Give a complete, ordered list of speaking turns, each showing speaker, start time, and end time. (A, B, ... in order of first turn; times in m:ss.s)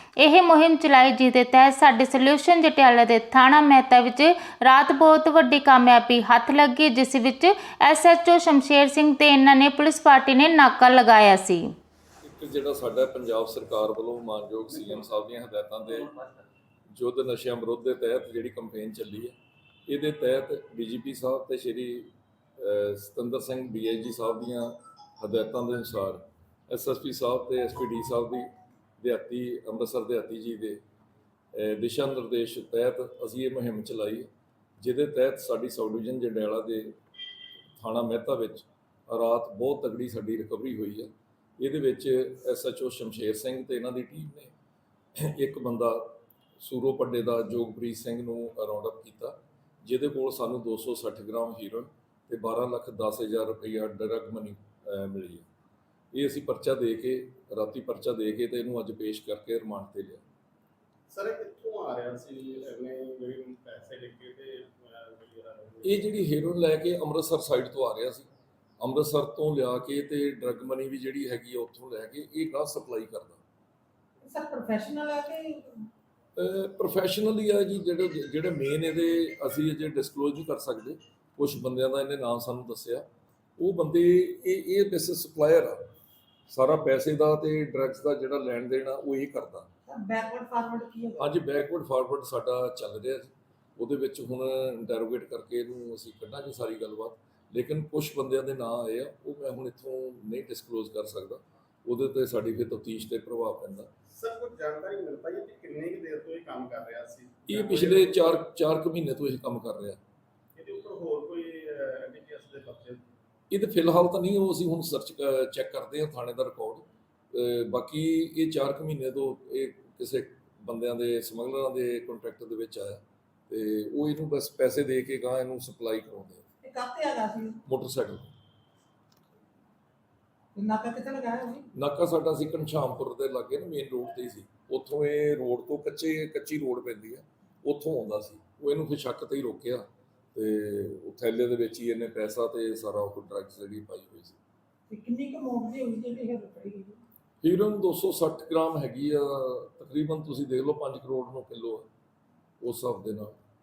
0:00.2-0:11.7 A
0:12.2-0:16.1 B
0:16.9-0:19.3 B
0:19.9-0:28.5 B
0:29.0-0:30.8 B
0:31.6-0:34.3 B
0:34.8-0:37.0 B
0:37.8-0:44.5 B
0:45.2-0:55.5 B
0:56.1-1:00.2 B
1:01.1-1:06.1 C
1:05.8-1:08.3 B
1:08.8-1:13.4 B
1:14.2-1:15.9 D
1:16.4-1:23.0 B
1:23.6-1:25.8 B
1:26.5-1:29.7 B
1:29.9-1:31.4 D
1:31.2-1:43.9 B
1:44.1-1:48.4 C
1:47.5-1:50.0 B
1:50.6-1:53.1 C
1:53.5-2:06.4 B
2:06.6-2:07.6 D
2:07.6-2:08.3 B
2:10.6-2:11.7 D
2:11.7-2:24.4 B
2:24.9-2:27.0 D
2:27.4-2:31.9 B
2:32.6-2:33.4 B